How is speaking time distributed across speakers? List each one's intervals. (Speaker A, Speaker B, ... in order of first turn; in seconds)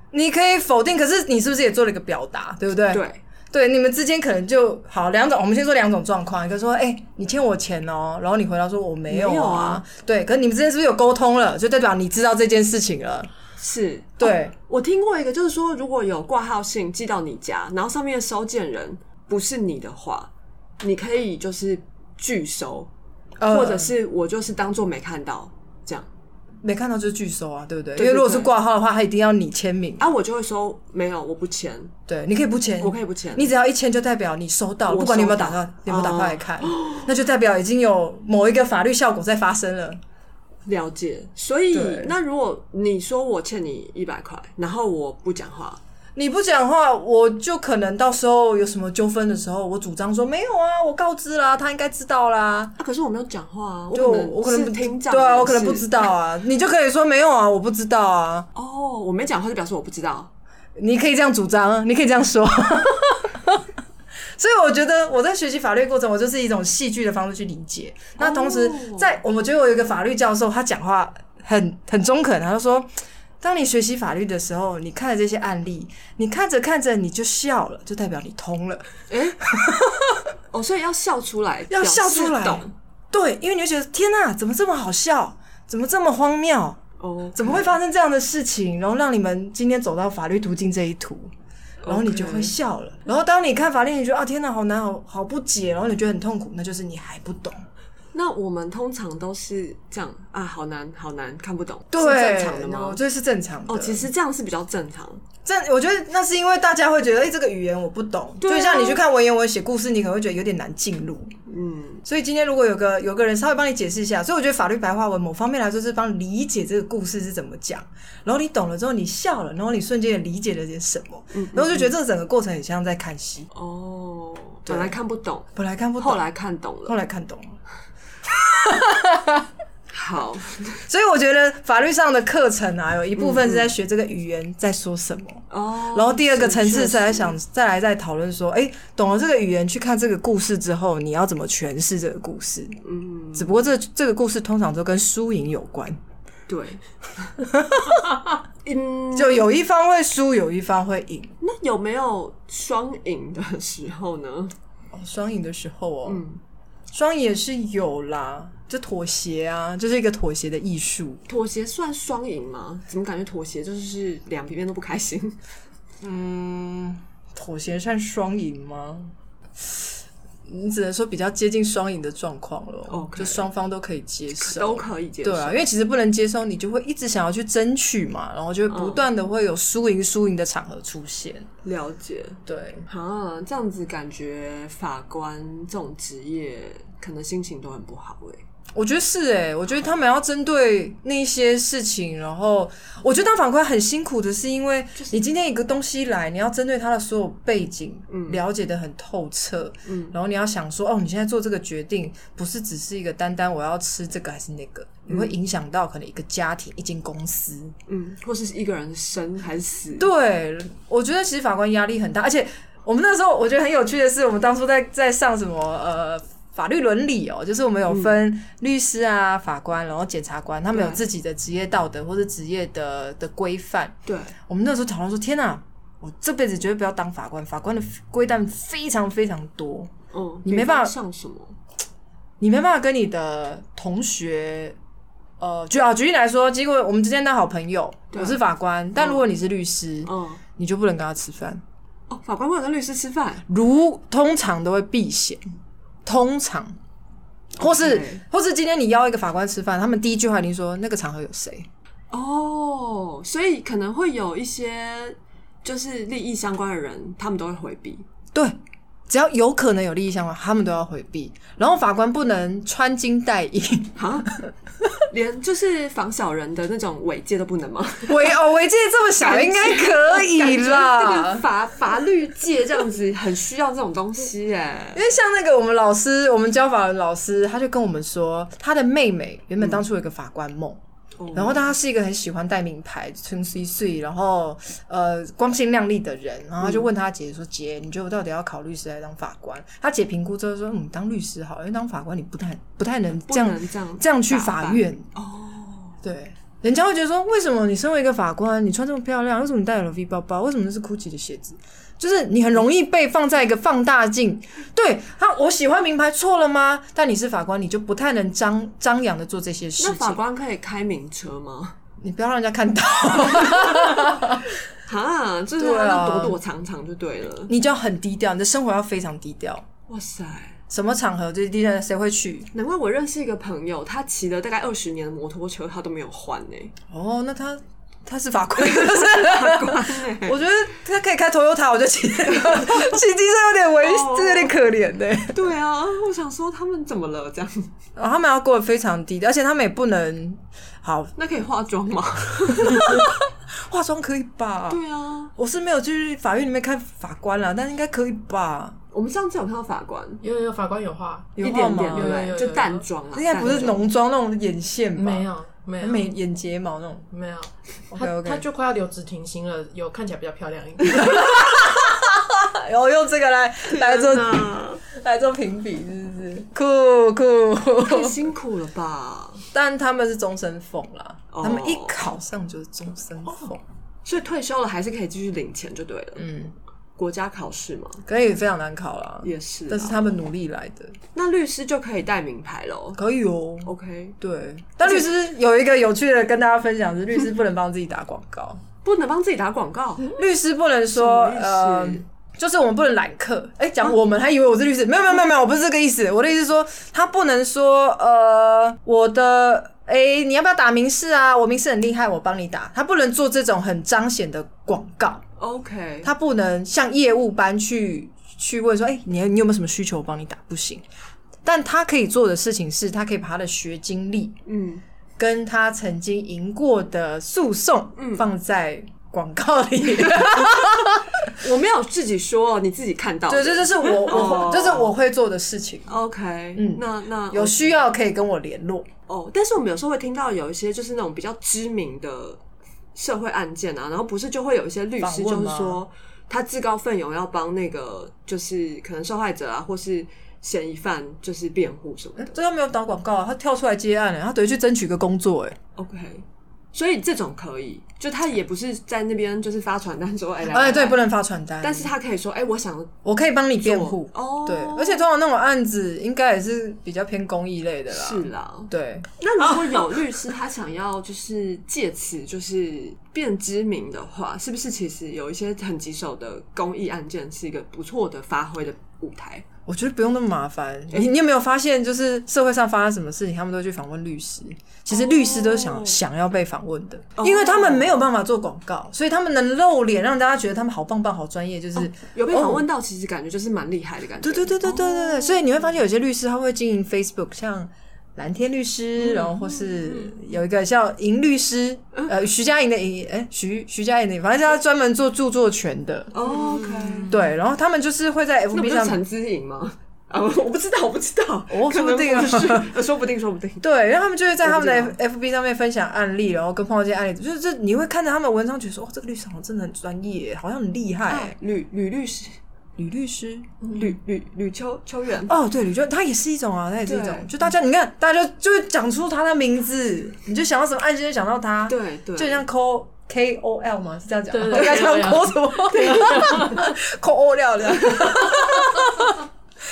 Speaker A: 0.1-13.3, 14.2-14.5, 23.4-23.9, 26.6-30.1, 32.1-40.0, 41.7-42.1, 46.1-52.7, 53.9-58.5, 60.8-63.6, 64.3-80.2, 81.7-86.8, 87.3-91.3, 91.8-97.7, 101.9-104.1, 105.4-111.3, 112.0-123.5, 124.7-125.0, 125.5-126.2, 126.8-127.6, 128.3-129.5, 130.9-142.8, 143.3-146.0, 147.4-148.2, 149.1-151.3, 154.9-156.2, 156.9-161.2, 166.0-169.9, 170.5-181.5, 182.4-182.8, 188.7-207.7, 210.0-229.9, 230.4-230.9, 232.4-234.8, 235.4-241.6, 243.5-245.4, 246.0-246.8, 247.6-251.7, 259.1-264.5, 268.1-271.4, 274.9-280.8, 281.3-295.1, 296.0-310.2, 312.0-314.4, 315.6-316.4, 317.5-319.6, 320.7-322.5, 326.9-335.4, 337.9-341.1, 342.6-344.8, 345.4-348.8, 351.4-352.3, 353.1-355.3, 355.8-357.1, 357.9-358.4, 360.9-368.3, 369.5-373.6, 376.2-376.5, 378.1-381.0, 382.9-388.6, 390.1-405.2, 406.0-410.8, 411.4-414.4, 415.2-421.2, 423.3-425.9, 426.5-428.9, 435.0-435.8, 442.2-445.6, 450.5-451.9, 453.0-459.1, 469.7-482.6, 484.2-496.1, 497.1-499.0, 501.5-502.7, 503.6-511.3, 512.8-513.9, 515.3-529.2
Speaker B: 2.9-3.2, 9.1-9.8, 13.6-22.9, 23.4-26.1, 27.9-28.5, 30.0-31.9, 32.8-33.5, 34.9-37.1, 40.6-45.8, 52.8-56.0, 58.5-60.3, 68.2-69.2, 79.1-79.4, 80.5-82.7, 87.0-87.7, 91.8-92.5, 98.1-103.0, 103.7-105.2, 108.4-109.0, 111.5-112.0, 121.3-121.9, 123.5-127.0, 129.9-130.8, 133.2-133.7, 135.5-137.3, 142.8-143.6, 146.5-147.3, 148.6-149.5, 151.4-154.5, 156.1-156.4, 161.3-165.4, 172.9-173.5, 174.4-175.6, 178.7-179.1, 181.6-188.4, 198.1-198.4, 199.8-200.1, 205.1-205.3, 207.9-210.1, 217.9-218.2, 220.7-221.0, 224.1-224.3, 230.1-231.6, 238.1-238.4, 239.0-239.2, 240.0-240.4, 242.1-243.4, 247.6-248.2, 252.1-258.0, 264.0-264.4, 265.1-268.3, 269.2-275.0, 281.2-281.7, 286.6-286.9, 293.2-296.0, 309.8-311.8, 313.3-314.3, 314.8-317.5, 319.9-320.6, 322.5-326.7, 328.6-330.4, 332.3-332.9, 333.8-334.5, 335.3-337.7, 341.1-343.1, 344.7-345.3, 348.9-350.2, 351.4-353.8, 363.7-364.8, 367.8-369.4, 371.3-372.0, 374.0-376.3, 377.0-378.0, 379.2-380.0, 381.1-383.0, 383.6-384.2, 388.8-390.2, 390.9-392.0, 405.4-406.1, 414.4-414.8, 418.0-418.3, 420.4-424.9, 425.9-427.8, 429.1-432.4, 432.9-442.4, 445.8-451.0, 451.6-452.9, 453.6-455.1, 457.9-469.4, 474.9-476.0, 477.2-478.0, 481.8-485.6, 489.0-490.1, 496.1-497.1, 498.5-503.6, 504.4-505.0, 511.1-512.4, 513.6-515.3, 516.9-517.3, 521.7-522.4, 524.5-524.9, 525.7-526.5, 527.8-528.3
Speaker C: 350.2-352.9, 354.9-356.1, 357.1-361.4, 496.3-497.1, 524.3-526.7